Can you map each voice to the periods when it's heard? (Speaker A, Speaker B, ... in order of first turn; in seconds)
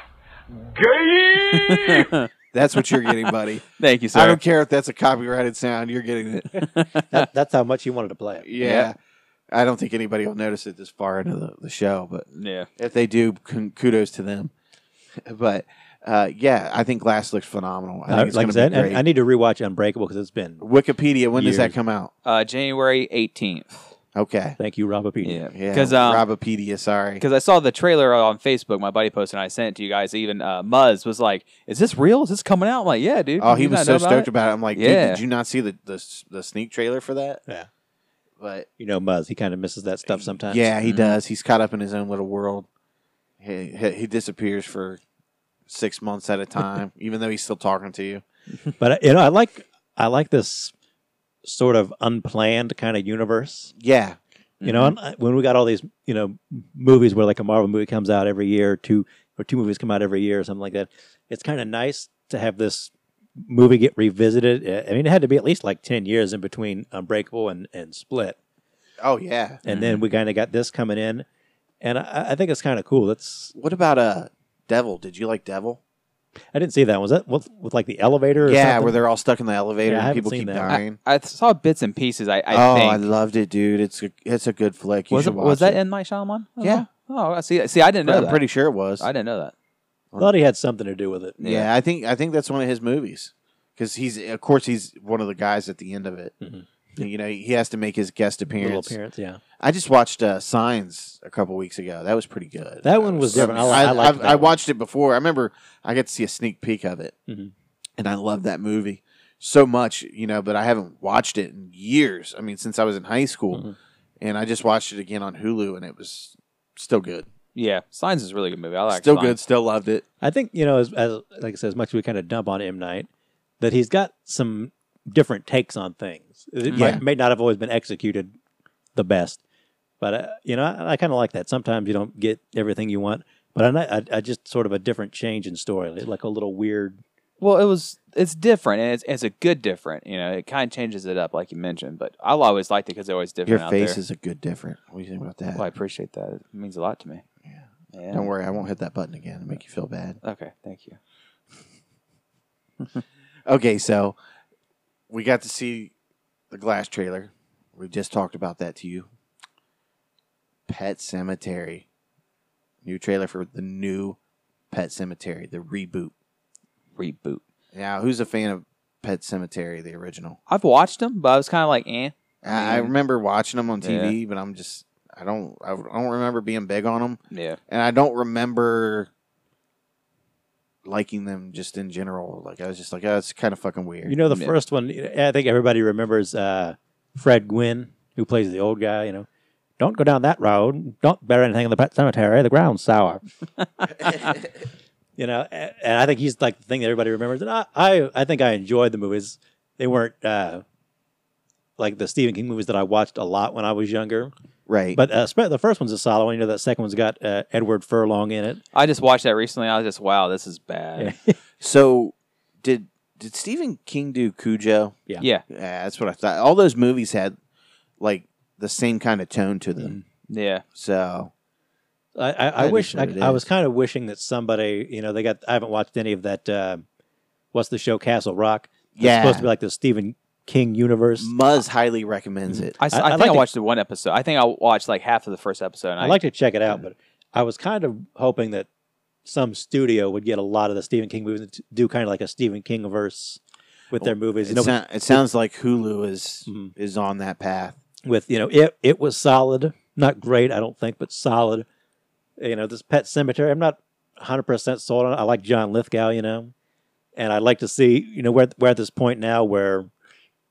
Speaker A: 1.3-2.3, 3.1-4.4, 6.6-7.3, 8.6-8.9, 12.4-12.7, 22.2-23.8, 25.2-26.2, 27.2-35.2, 40.8-41.2, 54.6-54.9, 69.7-70.0, 80.7-83.0, 85.1-88.4, 89.0-89.5, 91.4-91.7, 117.5-119.4, 126.7-127.0, 137.4-144.0, 145.6-147.2, 147.9-148.3, 150.2-151.0, 167.0-167.4, 170.5-172.9, 173.8-174.2, 177.3-177.6, 208.7-211.2, 220.3-220.6, 232.8-236.2
Speaker B: 2.5-6.7, 8.4-9.0, 9.5-12.3, 12.8-14.5, 15.2-19.0, 20.6-22.1, 24.1-24.6, 25.5-27.2, 33.4-37.4, 38.4-38.7, 40.2-42.7, 43.4-45.0, 45.7-48.2, 53.8-54.2, 69.0-69.6, 73.5-75.8, 78.4-81.0, 82.5-85.8, 86.6-86.9, 88.0-89.1, 91.4-96.3, 97.0-99.0, 99.6-107.1, 108.0-113.7, 114.2-117.3, 118.9-120.0, 126.7-127.0, 143.5-145.6, 147.5-150.2, 153.5-154.2, 155.1-155.9, 156.5-159.1, 160.7-161.9, 162.8-164.2, 164.7-166.1, 167.7-170.4, 172.4-179.1, 180.8-184.2, 204.7-205.0, 211.6-217.4, 218.0-220.0, 220.8-221.3, 222.6-223.4, 228.9-229.5, 231.2-232.8, 243.9-247.8
Speaker C: 7.1-8.5, 18.1-20.6, 21.4-21.7, 24.6-25.4, 38.8-40.7, 48.8-50.7, 51.4-53.7, 54.6-68.4, 69.7-71.3, 71.8-73.5, 76.5-79.0, 79.9-80.7, 90.2-91.4, 96.4-96.7, 98.6-99.4, 102.8-104.6, 120.2-123.1, 123.6-128.3, 128.9-129.4, 130.0-137.0, 184.1-189.3, 189.8-193.2, 195.2-200.6, 201.8-204.3, 204.9-208.6, 211.0-211.3, 222.2-226.8, 227.5-231.3, 232.5-233.4, 236.0-238.7, 239.2-243.4, 243.9-245.2, 246.5-246.7, 248.1-251.7, 252.4-256.5, 257.2-259.9